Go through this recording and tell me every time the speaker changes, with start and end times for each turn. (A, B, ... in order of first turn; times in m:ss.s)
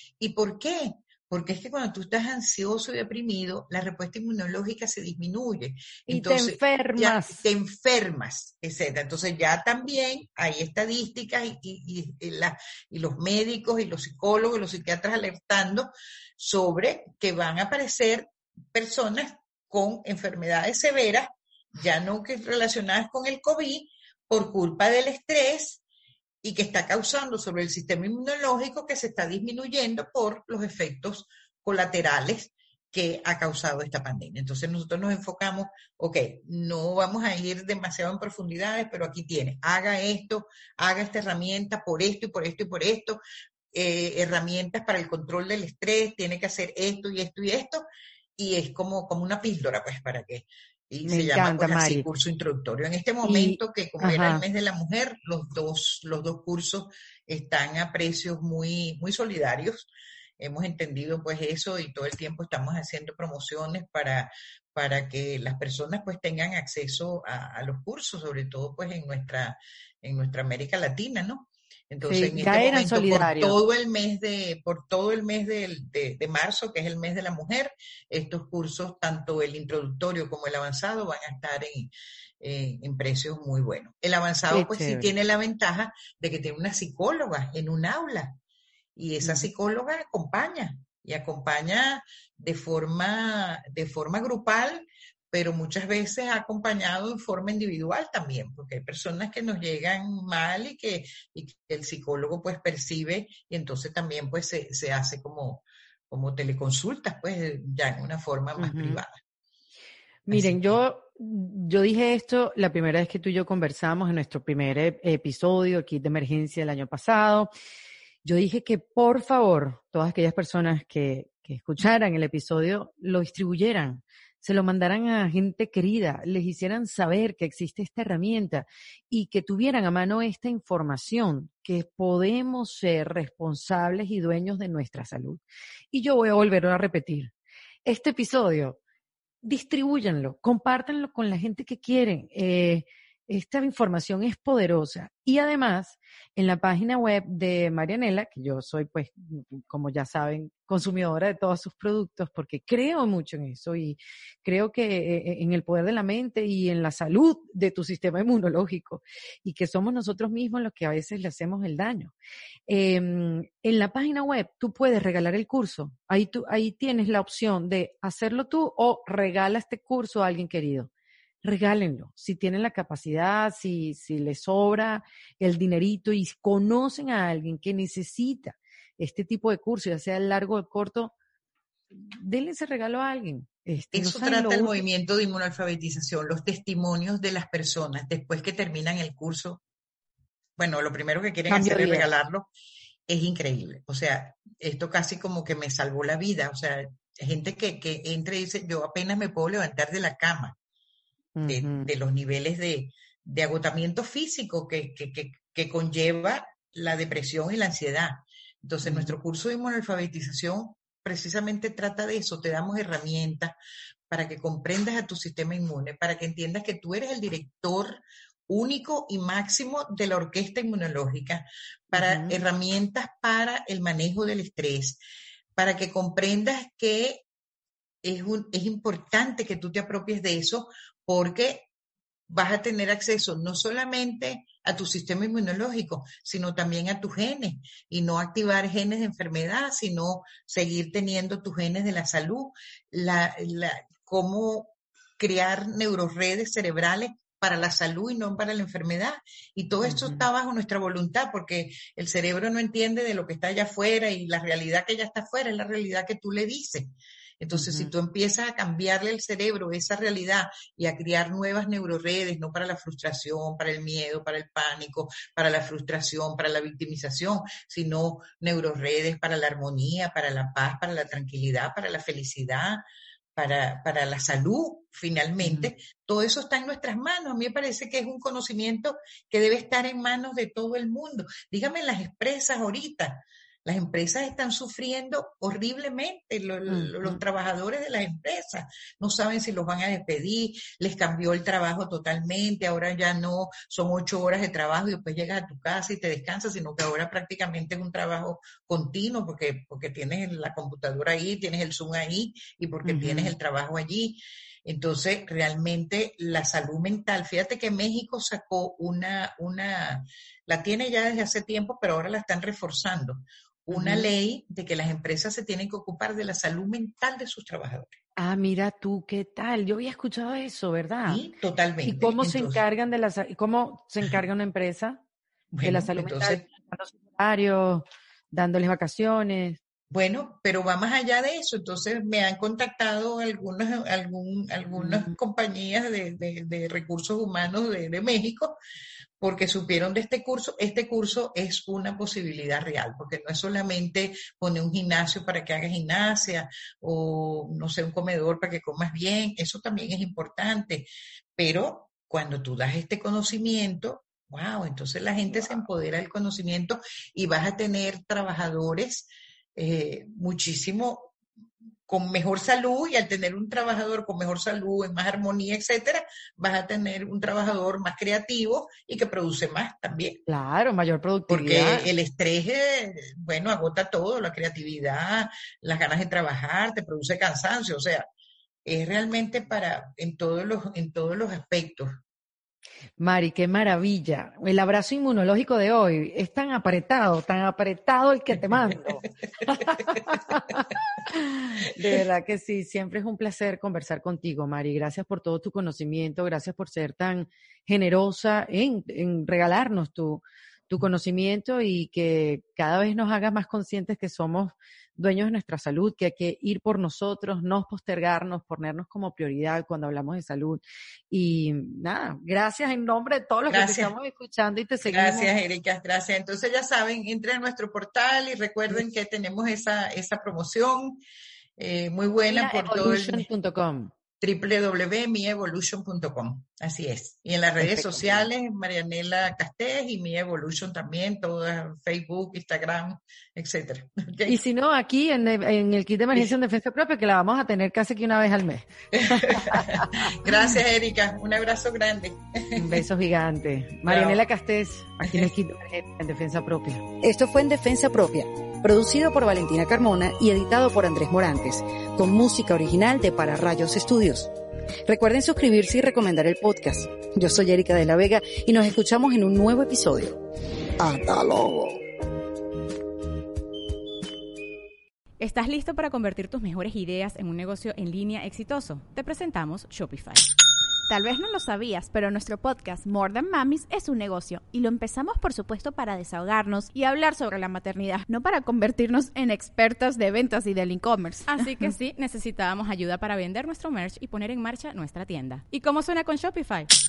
0:00.2-0:25.8 A
0:06.1-0:07.4 B
0:26.4-0:43.2 A
0:43.7-0:47.8 A
0:48.4-1:28.4 A
0:51.1-0:52.1 B
0:53.2-0:54.4 B
1:12.1-1:13.6 B
1:24.5-1:25.1 B
1:29.0-1:49.2 A
1:29.2-1:29.5 B
1:48.6-1:49.0 B
1:50.3-1:57.5 B
1:50.3-1:50.8 A
1:58.2-2:17.3 B
2:17.9-2:18.8 B
2:19.4-2:42.1 B
2:42.7-2:50.9 B
2:51.4-3:01.1 B
3:01.9-3:04.8 B
3:03.9-3:09.6 A
3:10.6-3:12.5 A
3:11.5-3:12.1 B
3:13.1-3:20.6 A
3:21.4-3:21.9 B
3:21.4-3:33.6 A
3:28.8-3:29.2 B
3:34.1-3:45.0 A
3:41.9-3:42.4 B
3:45.6-3:47.2 A
3:48.0-3:51.7 A
3:52.3-4:32.8 A
4:09.8-4:10.2 B
4:17.5-4:17.9 B
4:33.4-5:18.0 A
4:35.4-4:35.7 B
4:46.7-4:47.2 B
5:02.8-5:03.4 B
5:13.7-5:14.1 B
5:18.2-5:21.2 B
5:21.0-5:22.6 A
5:21.8-5:25.0 B
5:25.5-5:26.5 A
5:25.6-5:29.6 B
5:29.9-5:38.6 A
5:34.8-5:35.2 B
5:39.2-6:01.2 A
6:01.9-6:10.2 A
6:10.3-6:11.9 B
6:11.3-6:18.1 A
6:18.6-6:21.9 A
6:23.0-6:55.3 B
6:53.5-6:53.9 A
6:54.8-7:01.0 A
7:01.6-7:03.3 A
7:02.3-7:03.9 B
7:04.2-7:14.4 A
7:07.6-7:08.3 B
7:14.3-7:20.1 B
7:18.9-7:22.8 A
7:22.6-7:26.8 B
7:23.9-7:24.2 A
7:25.0-7:25.3 A
7:27.0-7:34.3 C
7:34.9-7:40.2 C
7:40.8-7:41.8 C
7:45.2-7:50.3 D
7:50.9-8:01.5 E
8:01.3-8:06.7 D